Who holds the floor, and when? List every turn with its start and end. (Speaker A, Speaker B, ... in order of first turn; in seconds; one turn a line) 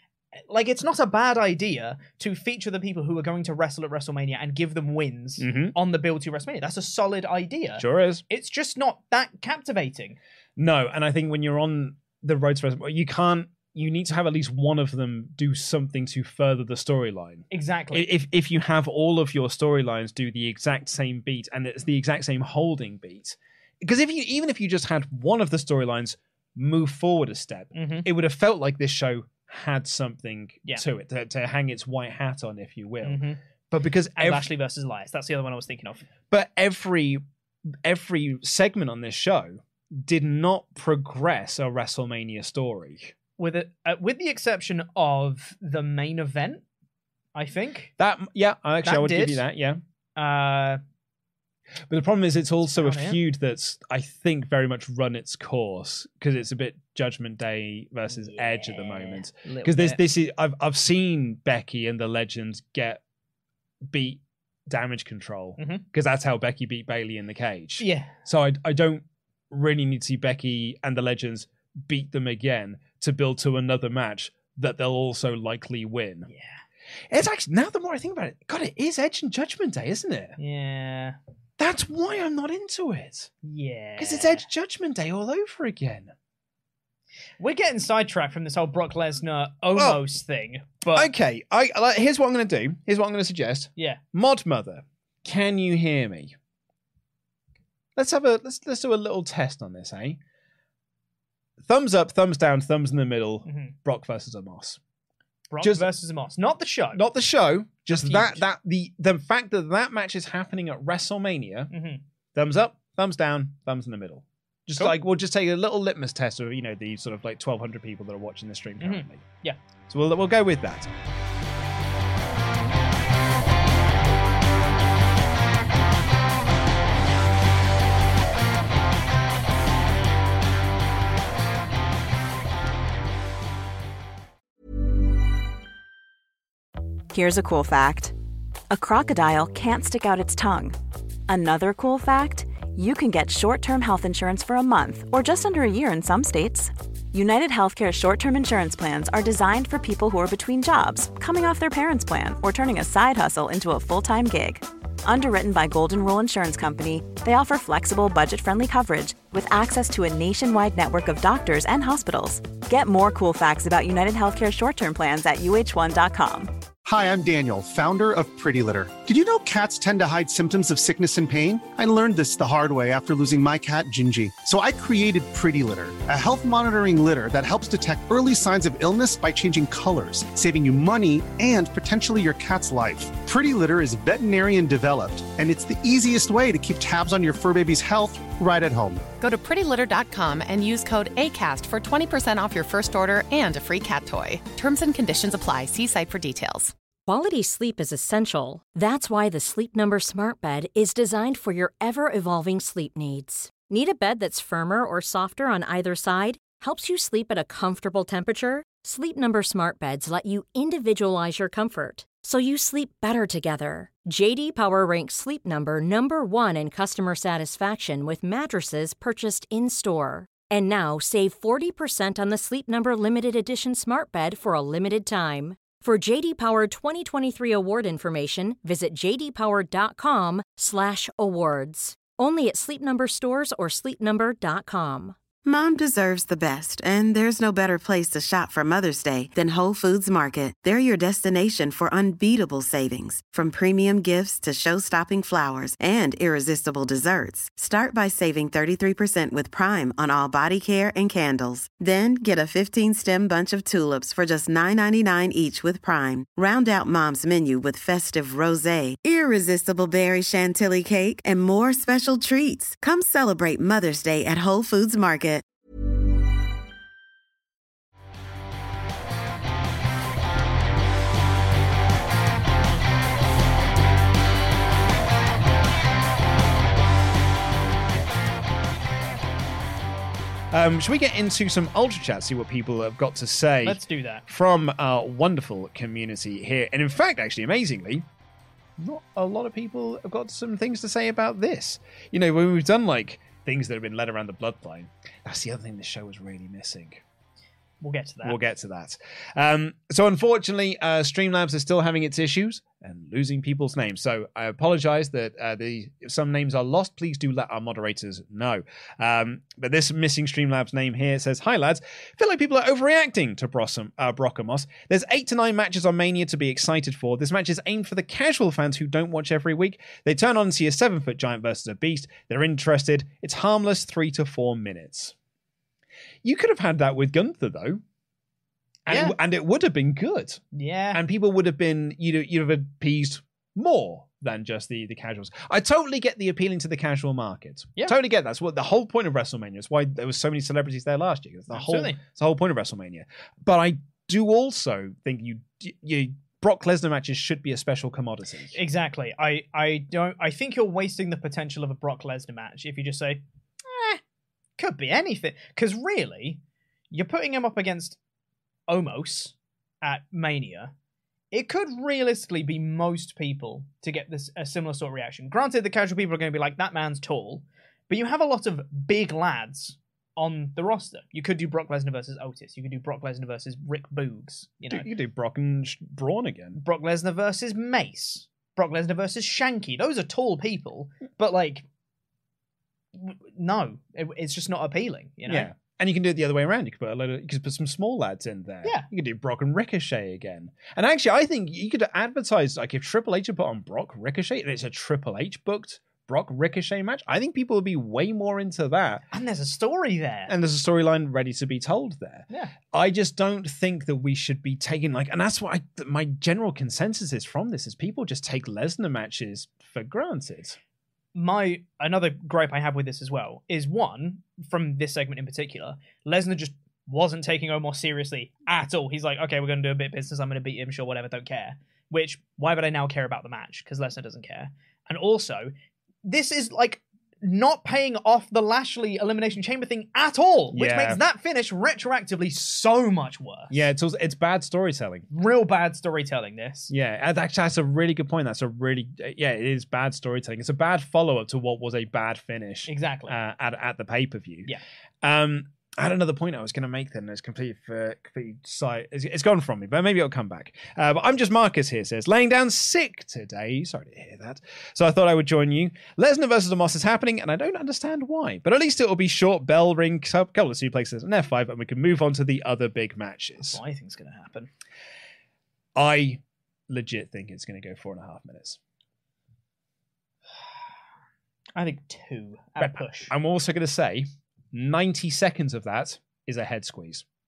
Speaker A: 0.5-10.2
Speaker B: 5.4-5.8
Speaker B: 7.8-8.2
Speaker B: 10.6-34.5
Speaker A: 17.5-18.1
Speaker A: 27.7-28.1
Speaker A: 33.0-33.4
Speaker A: 34.2-36.1
Speaker B: 36.3-37.2
Speaker B: 37.8-43.1
Speaker A: 43.4-46.6
Speaker A: 47.4-47.9
Speaker B: 48.0-49.8
Speaker A: 48.8-49.4
Speaker A: 50.2-50.8
Speaker B: 51.9-63.0
Speaker A: 52.7-53.2
Speaker A: 58.1-60.0
Speaker B: 63.9-76.3
Speaker A: 65.6-65.8
Speaker A: 67.8-68.2
Speaker A: 76.3-76.6
Speaker B: 77.1-80.4
Speaker A: 80.4-81.2
Speaker B: 81.6-83.3
Speaker A: 83.4-84.5
Speaker B: 84.0-86.1
Speaker A: 87.4-91.1
Speaker B: 89.8-90.0
Speaker B: 90.9-96.3
Speaker B: 98.0-100.2
Speaker B: 101.6-104.8
Speaker A: 103.5-103.7
Speaker A: 105.5-107.0
Speaker B: 105.6-105.9
Speaker B: 106.9-111.7
Speaker A: 107.9-108.4
Speaker A: 111.7-112.0
Speaker B: 112.3-119.3
Speaker A: 118.8-119.6
Speaker B: 119.9-120.9
Speaker C: 137.1-138.1
Speaker C: 138.7-140.8
Speaker C: 141.3-166.5
Speaker D: 166.8-189.1
Speaker E: 189.2-196.7
Speaker F: 197.1-235.2
Speaker G: 235.4-265.4
Speaker B: 280.5-288.1
Speaker A: 283.6-284.2
Speaker B: 288.8-297.0
Speaker A: 297.8-298.4
Speaker B: 298.2-325.1
Speaker B: 326.2-327.8
Speaker B: 328.9-348.6
Speaker A: 328.9-329.2
Speaker A: 330.5-331.0
Speaker A: 341.5-342.0
Speaker A: 348.5-354.0
Speaker A: 354.6-356.4
Speaker A: 356.9-358.0
Speaker A: 358.7-360.7
Speaker A: 361.3-374.9
Speaker B: 374.7-376.6
Speaker A: 376.6-381.6
Speaker A: 382.9-385.5
Speaker B: 385.3-399.1
Speaker A: 399.1-400.3
Speaker B: 400.3-410.6
Speaker A: 411.1-425.5
Speaker A: 426.0-433.6
Speaker B: 430.5-431.0
Speaker B: 433.5-435.1
Speaker A: 435.1-436.7
Speaker B: 436.7-463.6
Speaker A: 442.7-443.2
Speaker A: 463.5-464.5
Speaker B: 465.8-468.6
Speaker A: 471.6-473.1
Speaker B: 472.6-477.1